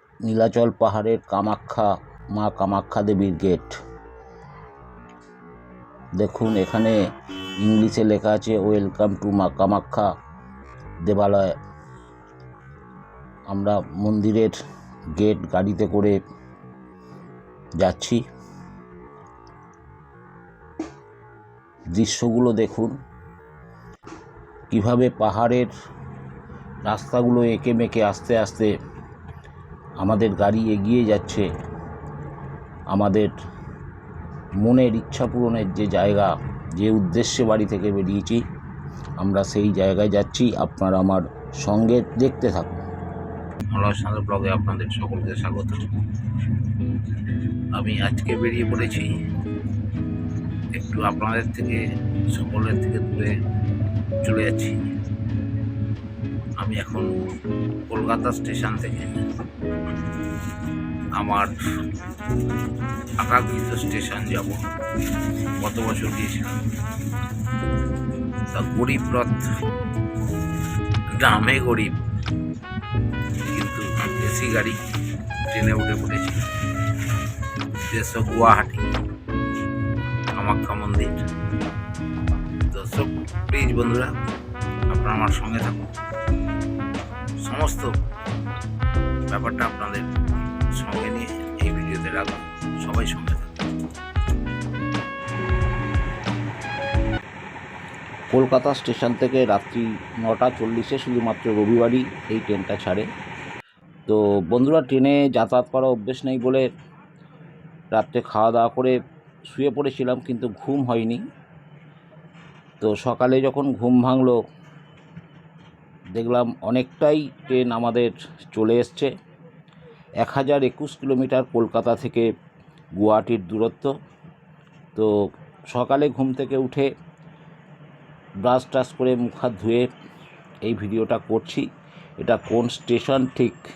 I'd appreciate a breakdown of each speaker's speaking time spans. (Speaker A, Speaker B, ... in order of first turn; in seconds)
Speaker A: 0.2-3.7, 6.2-7.0, 7.6-10.1, 11.0-11.5, 13.5-14.6, 15.2-16.2, 17.8-18.2, 21.9-22.9, 24.7-25.7, 26.9-28.7, 30.0-31.5, 32.9-33.3, 34.6-38.4, 39.2-42.8, 43.7-45.9, 47.7-49.1, 50.7-53.3, 54.2-54.8, 56.6-57.1, 57.9-59.1, 61.1-61.5, 63.2-64.6, 65.6-66.6, 68.5-69.5, 71.1-72.0, 73.5-74.8, 75.5-76.4, 77.9-78.8, 80.3-81.2, 82.7-84.1, 84.9-85.9, 87.4-87.9, 89.3-90.1, 90.8-93.5, 98.3-103.0, 104.1-106.7, 107.9-109.0, 109.5-111.2, 112.8-114.4, 116.2-119.1, 120.2-122.2, 123.0-123.9, 125.7-126.9, 128.4-129.9, 130.6-131.7, 132.2-133.6